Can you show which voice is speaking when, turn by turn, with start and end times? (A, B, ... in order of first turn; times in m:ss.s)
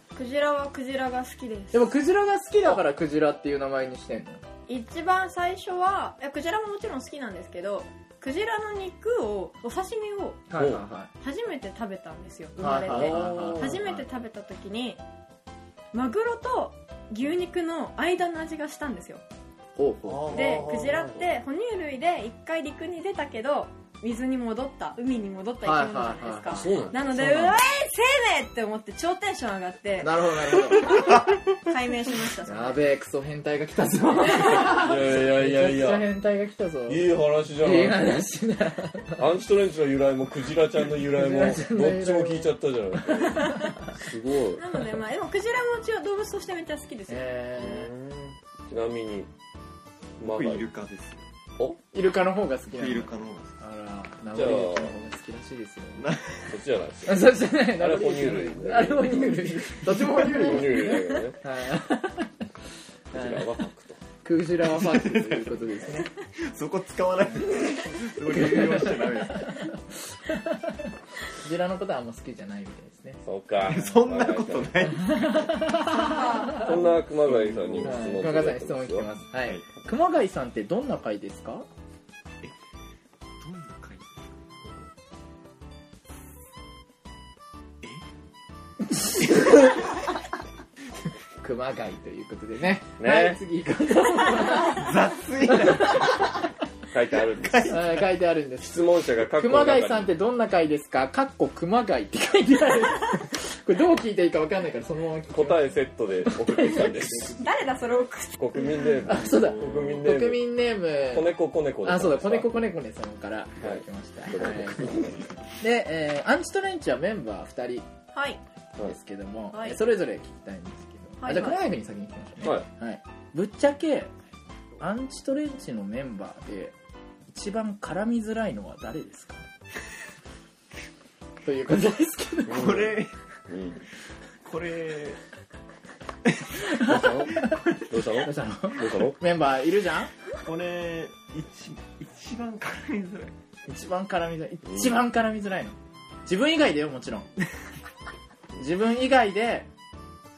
0:00.2-0:01.9 A
0:01.7-0:04.4 B
0:04.7-0:10.5 A
0:10.5-0:11.1 B
0:11.2-0:15.0 A
0:12.6-0:14.0 B
0:12.8-0:13.9 C
0:15.9-0:19.2 A
0:19.8-0:20.6 B
0:20.0-0:21.4 C
0:20.3-0:32.8 A
0:25.6-0:27.5 B
0:26.5-0:27.5 C
0:30.0-0:31.2 B
0:32.5-0:39.2 B
0:34.5-0:36.1 C
0:36.9-0:38.2 C
0:39.2-0:44.7 C
0:41.1-0:43.9 B
0:44.6-0:47.3 A
0:47.1-0:47.9 B
0:47.6-0:49.3 C
0:50.2-0:50.7 C
0:50.2-0:51.2 D
0:51.9-0:56.1 B
0:52.7-0:53.6 D
0:54.3-0:55.0 C
0:56.0-0:56.5 D
0:56.5-1:01.4 C
0:57.1-1:02.3 B
1:03.1-1:04.0 C
1:03.1-1:03.5 B
1:04.2-1:06.1 B
1:04.6-1:09.7 D
1:08.3-1:09.7 B
1:10.3-1:13.2 B
1:13.2-1:15.0 C
1:13.6-1:15.6 D
1:15.1-1:16.6 B
1:15.9-1:16.8 A
1:16.5-1:19.1 C
1:16.7-1:18.0 D
1:17.8-1:21.7 B
1:23.4-1:24.5 D
1:29.0-1:29.6 B
1:31.4-1:35.0 B
1:33.0-1:33.4 C
1:34.7-1:36.3 D
1:35.5-1:36.4 B
1:36.9-1:37.8 C
1:37.3-1:37.9 D
1:37.7-1:47.4 B
1:38.6-1:40.1 C
1:45.3-1:47.4 C
1:47.4-1:49.0 A
1:48.4-1:50.5 C
1:49.1-1:57.9 B
1:51.1-1:52.6 C
1:53.6-1:55.3 C
1:58.1-1:58.4 A
1:58.8-2:04.1 B
1:59.5-1:59.8 A
2:01.2-2:01.6 A
2:02.4-2:02.7 C
2:04.8-2:06.8 B
2:07.3-2:09.5 B
2:11.4-2:12.9 B
2:12.5-2:13.1 D
2:12.5-2:12.9 C
2:13.5-2:13.8 C
2:14.4-2:15.2 D
2:16.8-2:20.1 B
2:16.8-2:19.2 C
2:20.4-2:23.3 D
2:23.7-2:27.3 B
2:24.7-2:25.0 C
2:28.6-2:29.7 B